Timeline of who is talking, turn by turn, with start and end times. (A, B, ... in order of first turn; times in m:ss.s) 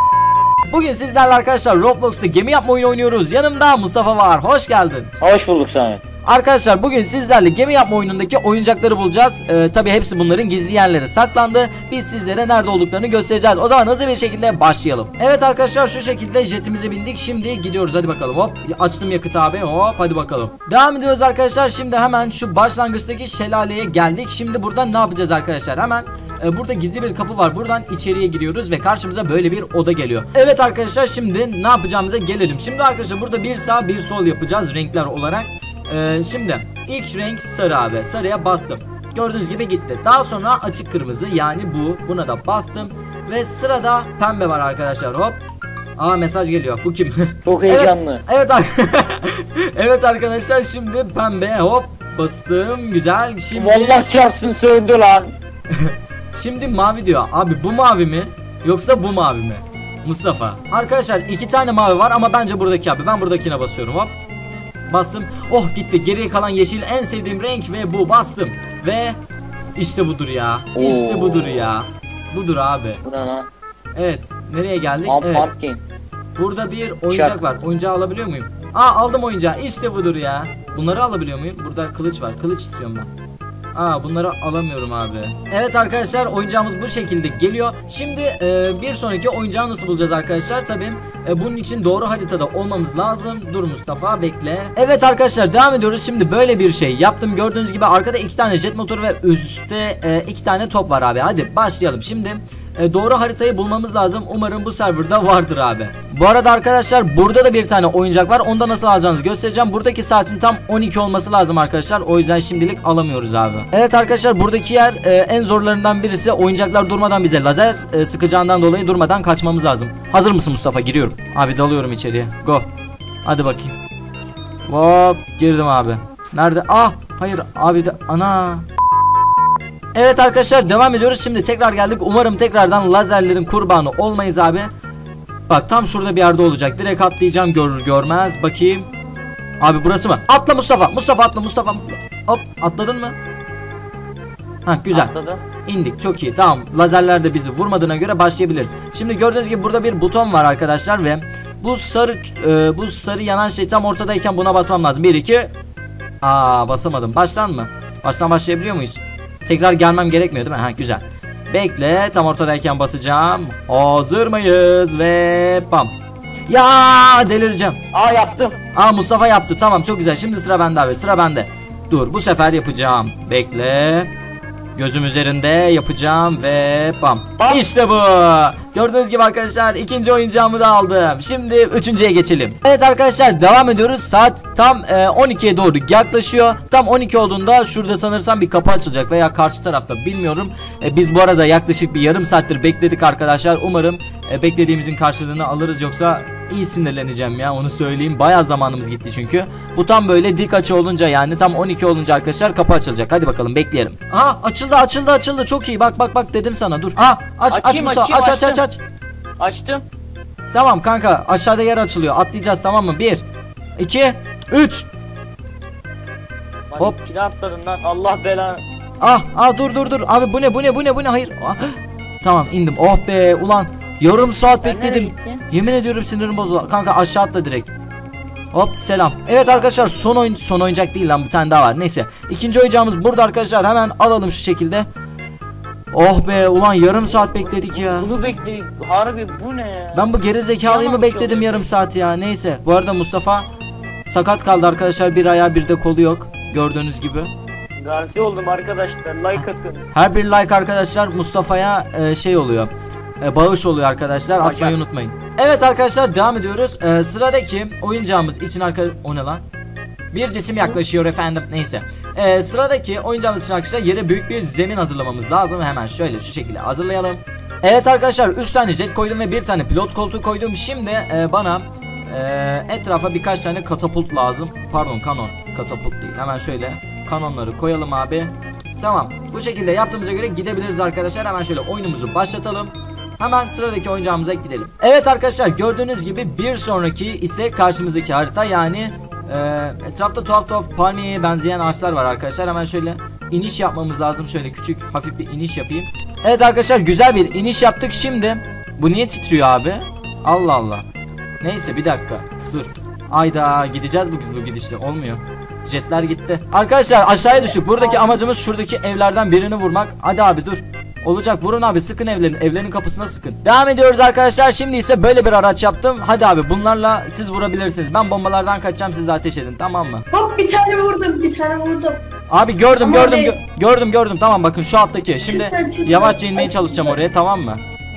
0:00.7-0:05.1 A
0:05.2-0:06.0 B
0:06.2-0:45.4 A
0:46.0-0:54.0 A
0:47.4-0:48.2 B
0:53.5-0:55.3 B
0:55.7-1:04.1 A
1:04.9-1:09.2 A
1:09.8-1:13.0 A
1:10.7-1:11.7 B
1:13.0-1:13.5 B
1:13.9-1:15.5 A
1:15.0-1:15.8 B
1:16.4-1:23.1 A
1:17.1-1:17.4 B
1:23.7-2:02.6 A
2:03.2-2:03.8 A
2:04.7-2:08.7 A
2:09.9-2:14.7 A
2:15.5-2:18.9 A
2:19.6-2:23.1 A
2:24.6-2:25.1 A
2:24.9-2:25.4 B
2:25.6-2:35.5 A
2:36.2-2:45.9 A
2:46.5-2:47.8 A
2:47.9-2:48.6 B
2:48.7-2:54.1 A
2:54.8-3:28.8 A
2:57.4-2:57.6 B
3:27.5-3:28.6 B
3:29.4-3:29.8 B
3:30.5-3:33.2 A
3:33.8-3:34.9 A
3:36.7-3:38.6 B
3:39.0-3:47.7 A
3:44.6-3:45.4 B
3:48.5-3:54.9 A
3:49.4-3:49.9 B
3:55.9-3:58.1 A
3:57.2-4:00.1 B
3:59.9-4:03.4 A
4:00.6-4:01.7 B
4:04.0-4:07.3 A
4:07.8-4:09.8 B
4:09.4-4:19.4 A
4:14.4-4:14.8 B
4:20.1-5:00.8 A
5:01.4-5:20.0 A
5:20.1-5:22.0 C
5:22.3-5:27.6 A
5:22.8-5:23.3 C
5:25.2-5:27.0 C